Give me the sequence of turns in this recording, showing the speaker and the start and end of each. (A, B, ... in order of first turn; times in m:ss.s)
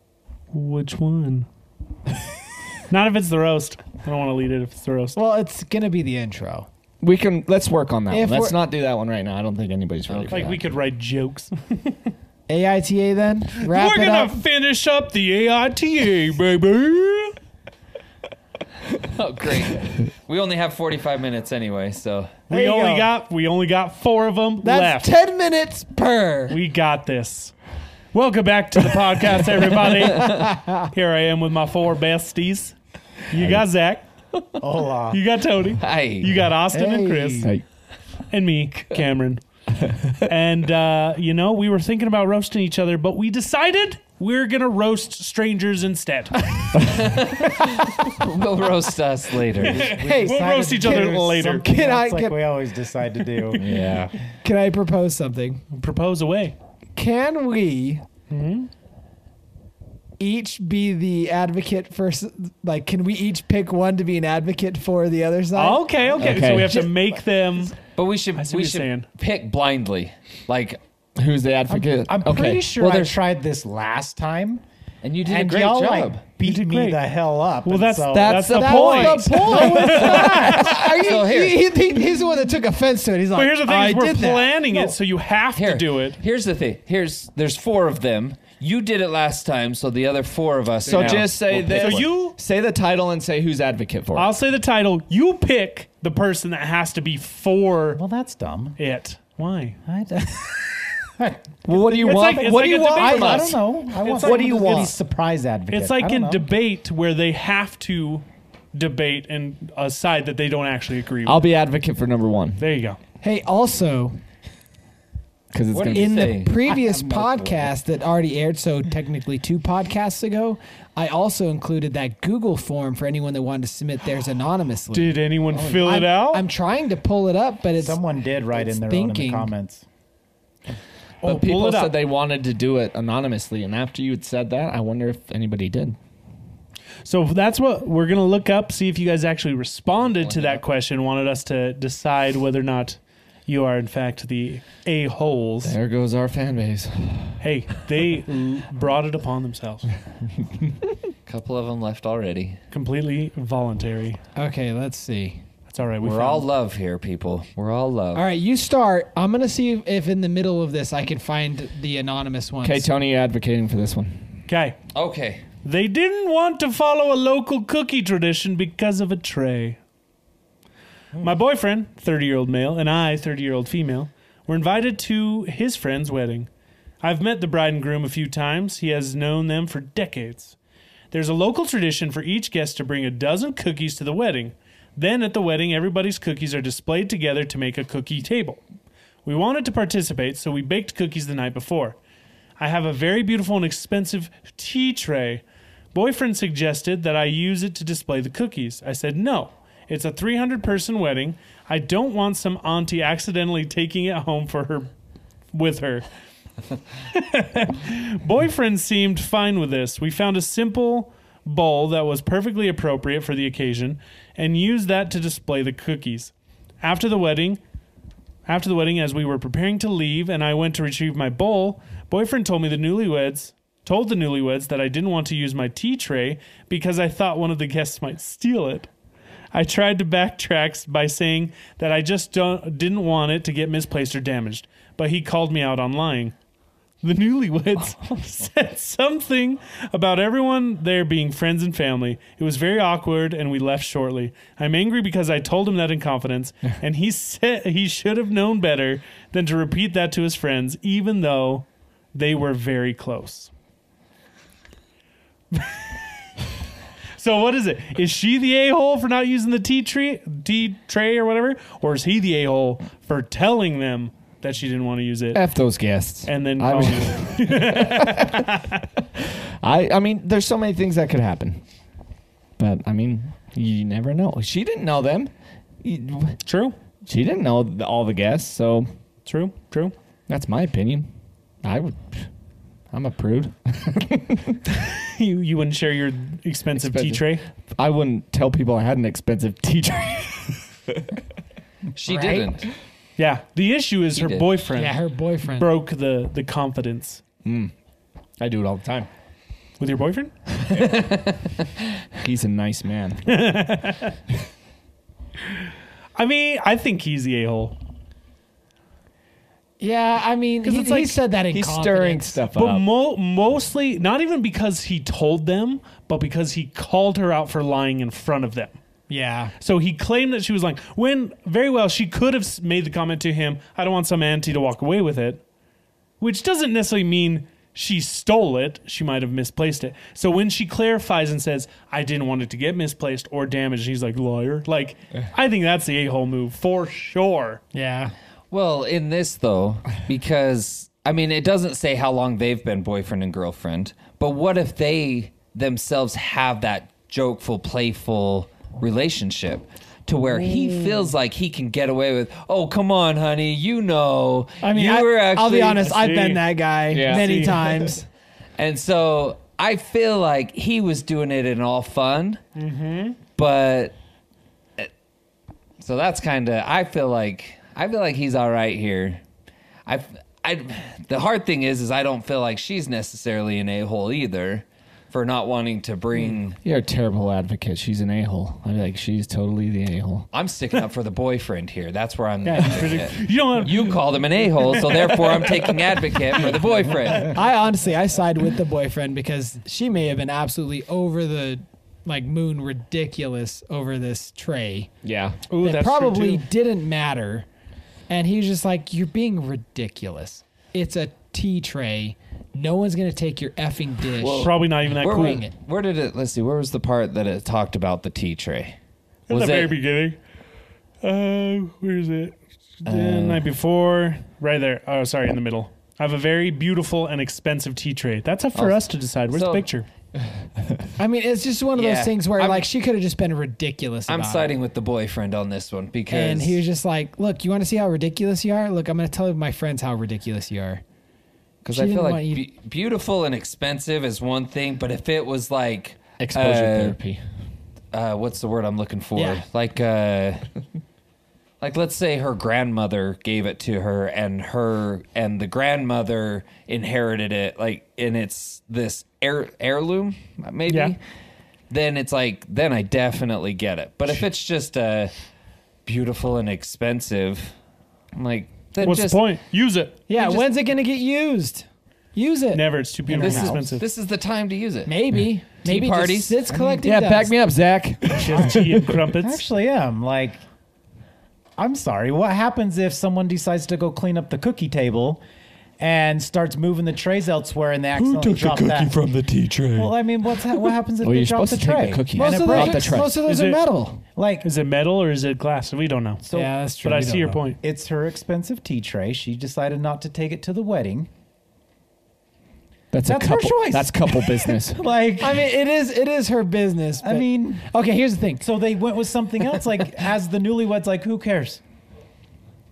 0:00.5-0:01.5 A
0:02.9-0:05.2 A
0:05.2-0:06.7 B
0:07.0-0:10.6 C
0:08.1-0:08.6 B
0:10.1-0:10.5 D
0:10.3-0:12.1 A
0:12.5-0:14.4 B
0:13.6-0:17.4 A
0:19.0-0:22.4 D
0:22.5-0:25.1 A
0:22.5-0:23.1 B
0:24.6-0:26.6 B
0:26.5-0:27.5 A
0:28.1-0:32.8 A
0:30.1-0:30.9 B
0:33.3-0:34.0 A
0:34.6-0:35.2 E
0:35.1-0:37.5 A
0:35.8-0:36.3 D
0:36.7-0:37.5 B
0:38.3-0:39.4 A
0:39.8-0:40.2 C
0:40.3-0:47.0 A
0:46.9-0:49.9 D
0:49.6-0:54.0 E
0:49.7-0:51.7 A
0:49.8-0:52.5 B
0:53.5-0:54.2 D
0:54.4-0:55.6 B
0:55.7-0:56.6 A
0:57.0-0:58.0 B
0:58.3-0:58.7 A
1:00.2-1:07.1 B
1:05.5-1:07.8 A
1:06.2-1:06.8 C
1:07.9-1:10.8 D
1:08.4-1:09.1 A
1:11.2-1:12.8 C
1:11.7-1:14.6 E
1:12.8-1:13.2 D
1:15.0-1:16.2 D
1:15.2-1:21.0 E
1:16.4-1:17.0 A
1:17.6-1:20.8 A
1:18.2-1:19.2 D
1:18.2-1:25.0 B
1:20.4-1:21.7 D
1:23.3-1:26.2 A
1:25.6-1:32.2 D
1:30.9-1:34.3 C
1:31.0-1:32.4 A
1:34.2-1:38.0 A
1:38.0-1:38.8 E
1:38.8-1:39.8 A
1:39.9-1:46.5 E
1:41.6-1:43.6 C
1:42.0-1:44.9 A
1:44.2-1:44.9 C
1:45.7-1:51.4 A
1:51.2-1:52.6 C
1:52.6-1:53.0 A
1:53.2-1:54.2 B
1:55.5-1:56.6 C
1:55.7-1:57.7 D
1:55.9-2:05.2 B
2:04.9-2:06.5 A
2:05.6-2:06.0 C
2:05.8-2:09.5 B
2:07.8-2:09.8 E
2:11.2-2:12.0 A
2:11.2-2:16.0 C
2:17.0-2:25.8 A
2:20.1-2:20.6 D
2:25.6-2:27.4 C
2:27.4-2:29.9 A
2:31.3-2:32.6 D
2:32.7-2:34.2 A
2:34.4-2:35.4 B
2:35.7-2:36.5 A
2:36.0-2:38.2 D
2:38.1-2:42.9 B
2:42.6-2:44.4 C
2:44.5-2:44.8 A
2:44.9-2:45.4 D
2:45.6-2:49.8 A
2:51.2-2:56.5 A
2:57.0-3:00.6 A
3:01.1-3:08.6 A
3:09.2-3:12.0 A
3:12.6-3:24.9 A
3:25.5-3:26.1 A
3:27.1-3:37.6 A
3:38.5-3:48.9 A
3:49.5-3:56.3 A
3:57.0-4:13.5 A
4:15.5-4:16.1 A
4:17.2-4:25.4 A
4:25.3-4:31.6 C
4:26.2-4:28.8 A
4:32.6-4:36.4 C
4:36.4-4:36.8 A
4:37.1-4:38.9 C
4:39.2-4:39.9 A
4:40.3-4:41.1 C
4:41.6-4:42.3 C
4:42.9-4:44.6 C
4:44.8-4:47.5 A
4:46.8-4:51.2 C
4:52.0-4:52.7 D
4:52.0-4:52.6 B
4:53.2-4:57.2 A
4:54.2-4:54.5 D
4:54.7-4:55.7 B
4:57.4-4:57.7 C
4:58.4-4:59.1 C
4:59.8-5:00.9 A
5:00.7-5:01.6 D
5:02.2-5:03.3 C
5:03.3-5:04.2 A
5:06.2-5:07.8 A
5:09.8-5:12.4 B
5:10.6-5:11.2 A
5:11.5-5:12.9 C
5:12.5-5:18.8 A
5:19.1-5:19.6 B
5:19.6-5:25.4 A
5:26.2-5:37.6 A
5:37.7-5:38.1 B
5:38.5-5:56.0 D
5:50.4-5:51.0 A
5:54.6-5:58.1 B
5:55.8-5:57.9 A
5:56.9-5:57.5 C
5:58.6-6:02.4 D
6:02.6-6:03.2 A
6:03.4-6:04.0 D
6:05.8-6:09.2 D
6:09.9-6:16.6 D
6:16.6-6:20.3 C
6:20.3-6:27.4 D
6:22.4-6:25.2 A
6:27.2-6:34.9 B
6:35.0-6:35.4 C
6:35.5-6:36.5 A
6:35.6-6:37.5 B
6:38.1-6:45.5 B
6:44.2-6:48.8 D
6:44.3-6:45.4 A
6:49.3-6:50.2 A
6:49.3-6:49.7 D
6:51.0-6:59.9 A
6:52.9-6:53.4 D
6:58.5-6:59.7 D
7:01.0-7:04.5 B
7:01.8-7:02.6 D
7:04.1-7:06.6 D
7:06.1-7:10.8 B
7:11.6-7:17.0 D
7:11.7-7:12.5 B
7:16.2-7:17.2 C
7:17.9-7:20.5 D
7:19.2-7:19.4 B
7:21.6-7:31.0 D
7:30.7-7:31.0 A
7:31.7-7:35.1 D
7:35.8-7:37.5 D
7:38.2-7:39.2 D
7:38.8-7:40.5 A
7:40.1-7:43.7 B
7:42.5-7:43.8 A
7:43.1-7:43.7 E
7:43.2-7:45.0 D
7:44.9-7:47.3 B
7:45.6-7:46.4 D
7:46.5-7:46.8 E
7:46.8-7:48.9 C
7:48.1-7:49.4 A
7:49.2-7:50.4 E
7:51.6-7:55.2 E
7:55.8-7:59.0 E
7:58.0-7:59.9 C
7:59.8-8:03.1 E
8:01.0-8:03.2 C
8:02.2-8:04.0 B
8:03.2-8:03.6 A
8:04.2-8:04.5 E
8:04.4-8:06.3 A
8:06.3-8:07.4 B
8:06.8-8:07.6 A
8:07.6-8:11.1 E
8:12.9-8:14.8 C
8:13.0-8:15.4 E
8:15.2-8:18.4 B
8:17.0-8:17.6 E
8:18.4-8:21.6 E